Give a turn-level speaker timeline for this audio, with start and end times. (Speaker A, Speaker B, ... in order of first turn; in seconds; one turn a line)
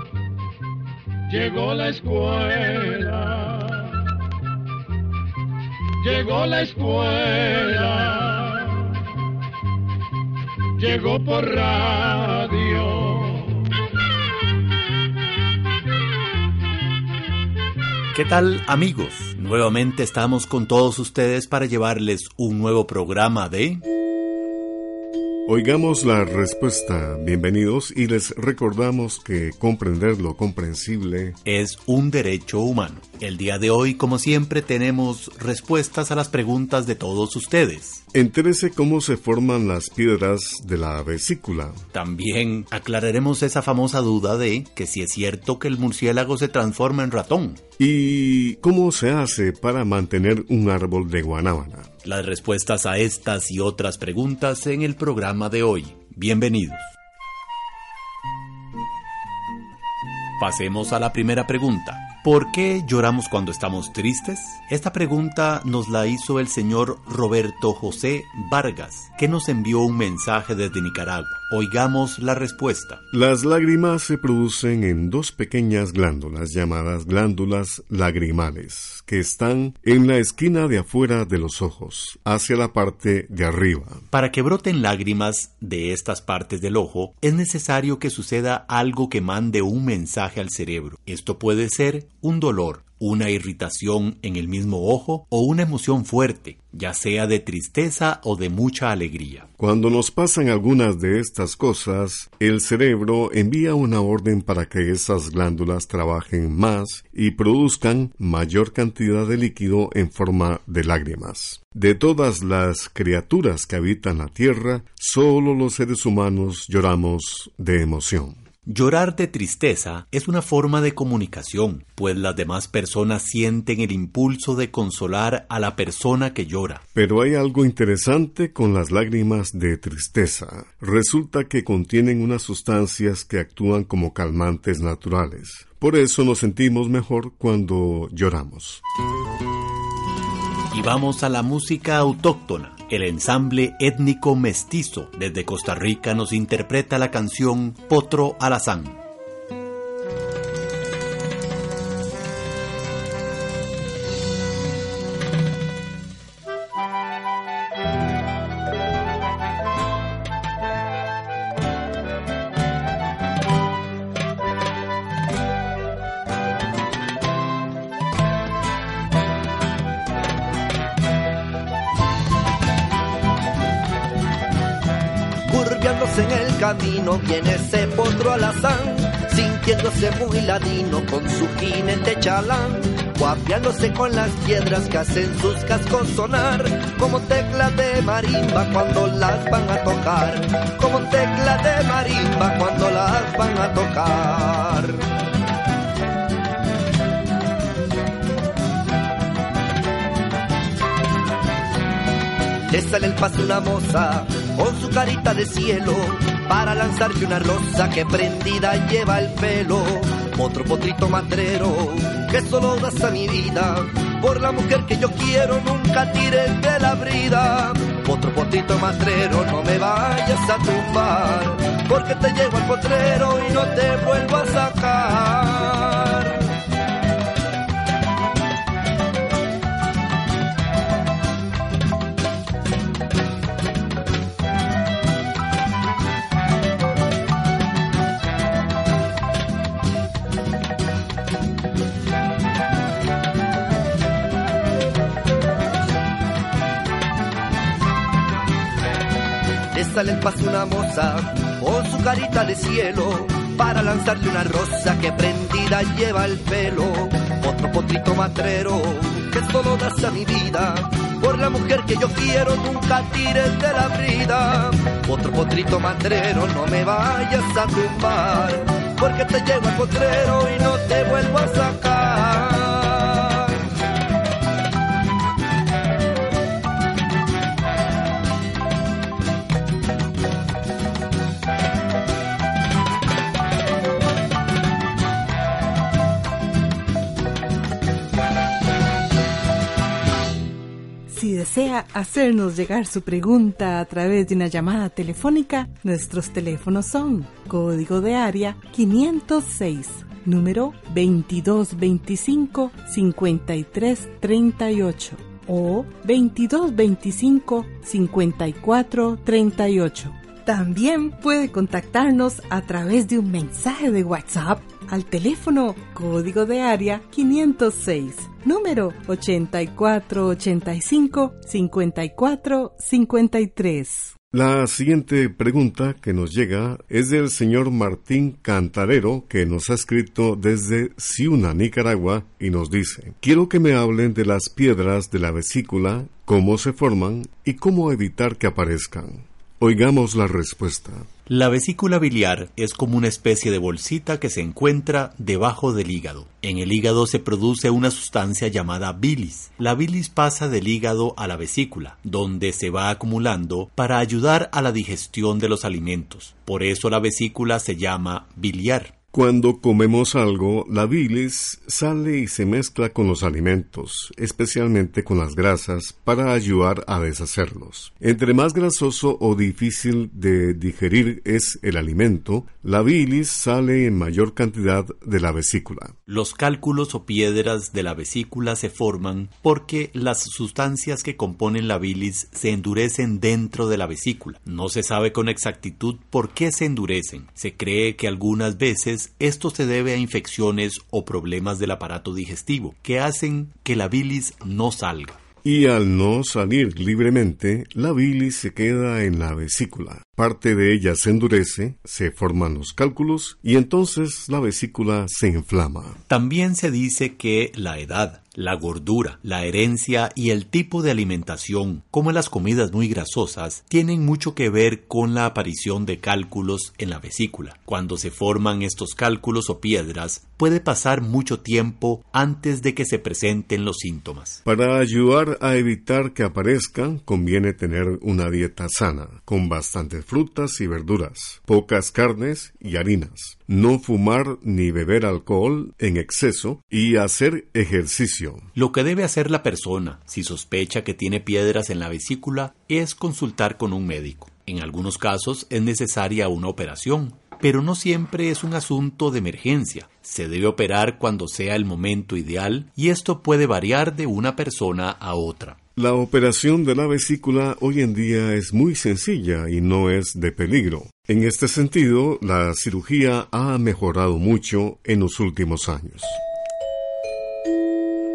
Speaker A: 1.3-3.9
Speaker A: 6.0-8.8
Speaker A: 10.8-13.5
Speaker B: 18.1-23.9
Speaker C: 25.5-31.4
Speaker B: 31.4-38.0
Speaker C: 38.1-41.8
Speaker B: 41.9-47.6
Speaker C: 47.8-51.9
Speaker B: 52.0-56.9
Speaker B: 60.4-73.0
Speaker C: 73.1-84.0
Speaker B: 84.1-99.5
Speaker C: 99.6-118.4
Speaker B: 118.7-126.8
Speaker C: 127.0-138.8
Speaker B: 140.7-149.0
Speaker D: 175.5-195.0
Speaker D: 202.7-226.5
Speaker D: 249.7-273.7
Speaker E: 291.1-324.1
Speaker C: 324.3-341.1
Speaker B: 341.3-358.9
Speaker C: 359.1-375.9
Speaker B: 376.1-395.2
Speaker C: 395.4-406.0
Speaker B: 406.1-424.4
Speaker C: 424.4-438.5
Speaker B: 438.6-455.6
Speaker C: 455.8-466.2